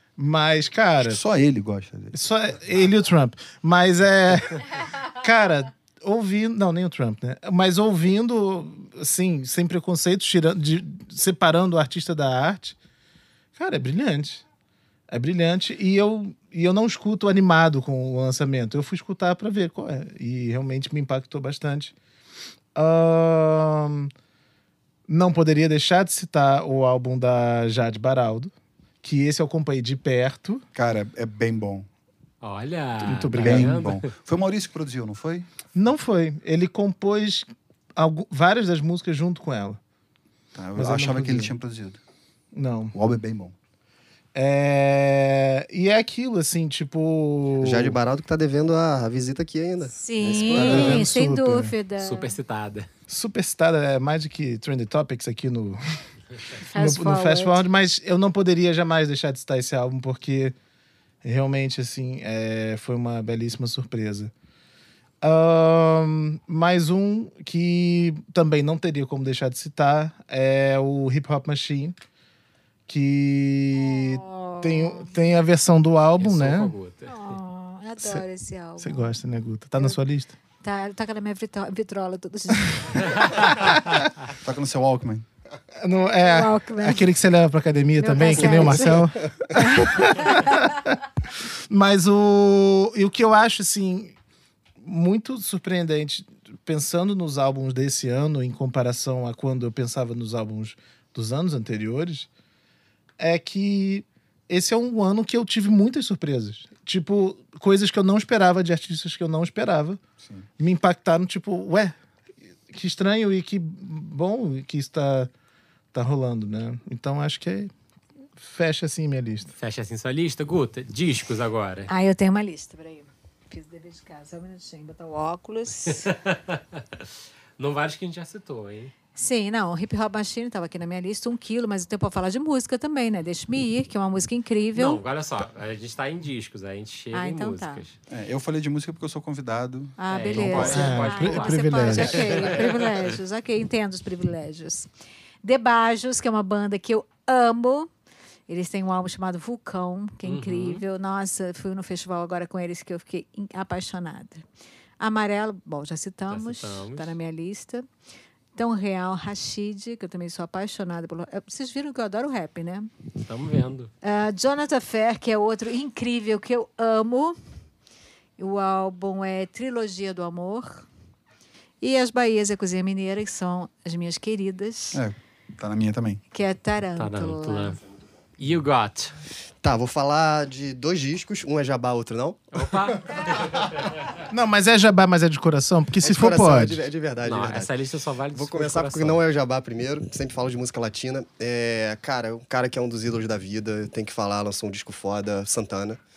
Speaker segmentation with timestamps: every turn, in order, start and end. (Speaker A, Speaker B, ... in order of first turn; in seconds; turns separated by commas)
Speaker A: 0.2-1.2, Speaker B: 1.0-2.1, Speaker A: 2.1-12.8, Speaker A: 13.6-14.4, Speaker A: 15.1-21.9, Speaker A: 22.7-24.1, Speaker A: 25.1-30.6, Speaker B: 30.7-31.9, Speaker C: 32.4-34.1, Speaker A: 33.0-33.7, Speaker B: 33.4-35.5, Speaker A: 35.7-39.8, Speaker B: 40.5-42.0, Speaker A: 40.8-41.5, Speaker A: 42.5-42.9, Speaker B: 42.9-43.5, Speaker A: 44.3-48.0, Speaker D: 47.6-51.1, Speaker E: 50.0-52.3, Speaker A: 50.5-51.7, Speaker C: 52.0-52.9, Speaker A: 53.1-56.0, Speaker A: 56.6-60.5, Speaker E: 56.7-57.6, Speaker A: 61.2-64.3, Speaker A: 65.2-72.0, Speaker A: 72.9-76.7, Speaker E: 73.8-75.1, Speaker C: 76.2-77.3, Speaker E: 77.1-79.1, Speaker A: 78.8-80.3, Speaker E: 80.6-83.6, Speaker A: 83.3-84.1, Speaker B: 84.3-85.2, Speaker A: 85.8-91.0, Speaker E: 86.2-87.0, Speaker E: 88.0-90.6, Speaker D: 88.9-89.4, Speaker A: 91.7-94.1, Speaker A: 94.8-102.3, Speaker A: 103.2-110.0, Speaker A: 110.6-111.9, Speaker A: 112.7-115.3, Speaker A: 115.9-117.7, Speaker A: 118.4-119.5, Speaker C: 119.6-121.9, Speaker E: 121.9-126.1, Speaker C: 125.8-127.0, Speaker C: 127.6-128.9, Speaker E: 129.1-135.0, Speaker C: 134.7-137.9, Speaker E: 137.1-137.8, Speaker B: 138.1-141.1, Speaker E: 140.0-144.9, Speaker C: 140.1-143.0, Speaker A: 140.7-142.3, Speaker E: 145.4-147.9, Speaker E: 148.5-154.4, Speaker C: 150.2-150.8, Speaker E: 155.0-157.9, Speaker C: 156.3-157.2, Speaker E: 158.6-162.9, Speaker C: 163.2-163.9, Speaker E: 164.0-167.4, Speaker E: 168.4-170.9, Speaker E: 171.8-175.0, Speaker B: 174.9-176.2, Speaker E: 176.3-177.8, Speaker C: 176.9-177.8, Speaker C: 178.4-179.2, Speaker D: 179.6-182.5, Speaker C: 182.5-184.0, Speaker A: 184.3-186.8, Speaker D: 186.0-187.7, Speaker C: 187.2-189.2, Speaker D: 188.3-196.0